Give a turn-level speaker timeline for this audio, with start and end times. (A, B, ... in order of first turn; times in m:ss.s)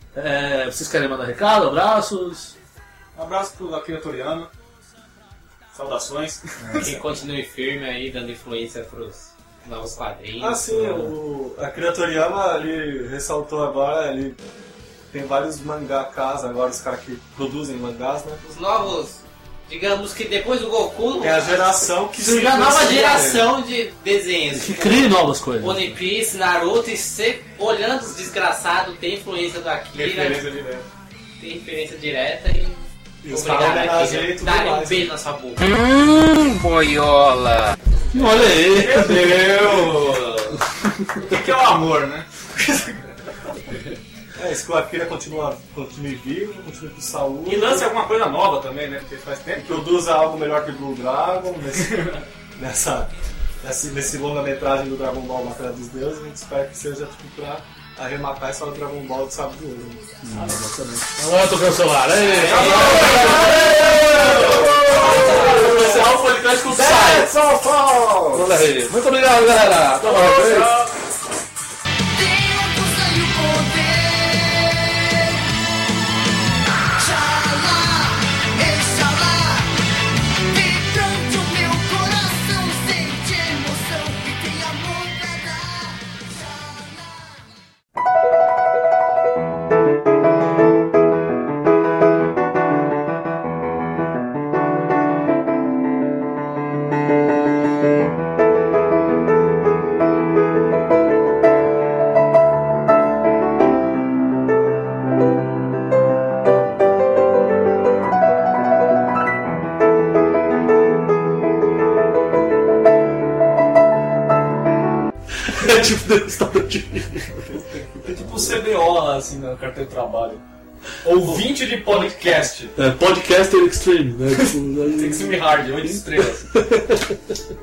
0:00.2-0:02.6 A
0:03.2-0:04.5 B
0:05.7-0:06.9 B
0:06.6-0:07.0 A
0:06.8-0:11.0 C
0:10.4-0:14.4 D
0:15.1-0:18.4 D
0:18.4-0:30.4 C
0:21.2-0:23.6 D
0:24.5-0:26.0 A
0:29.9-0:30.9 D
0:31.4-0:35.8 C
0:33.2-0:35.1 D
0:38.1-0:39.6 A
0:38.5-0:40.2 B
0:39.4-0:40.6 C
0:39.6-0:39.9 D
0:40.5-0:41.1 A
0:41.2-0:43.0 B
0:44.4-0:47.9 D
0:47.4-0:49.9 B
0:49.6-0:52.0 D
0:51.8-0:52.2 B
0:52.6-0:53.1 D
0:53.6-1:00.0 D
1:00.2-1:07.3 A
1:02.3-1:05.6 D
1:02.4-1:05.9 B
1:06.7-1:08.4 D
1:08.3-1:10.7 A
1:10.0-1:10.9 B
1:12.2-1:15.4 E
1:17.0-1:19.8 E
1:20.4-1:27.6 E
1:55.4-1:57.5 A
1:57.5-1:58.1 D
1:58.0-2:00.4 B
2:01.0-2:02.7 B
2:02.7-2:07.4 A
2:04.9-2:06.4 B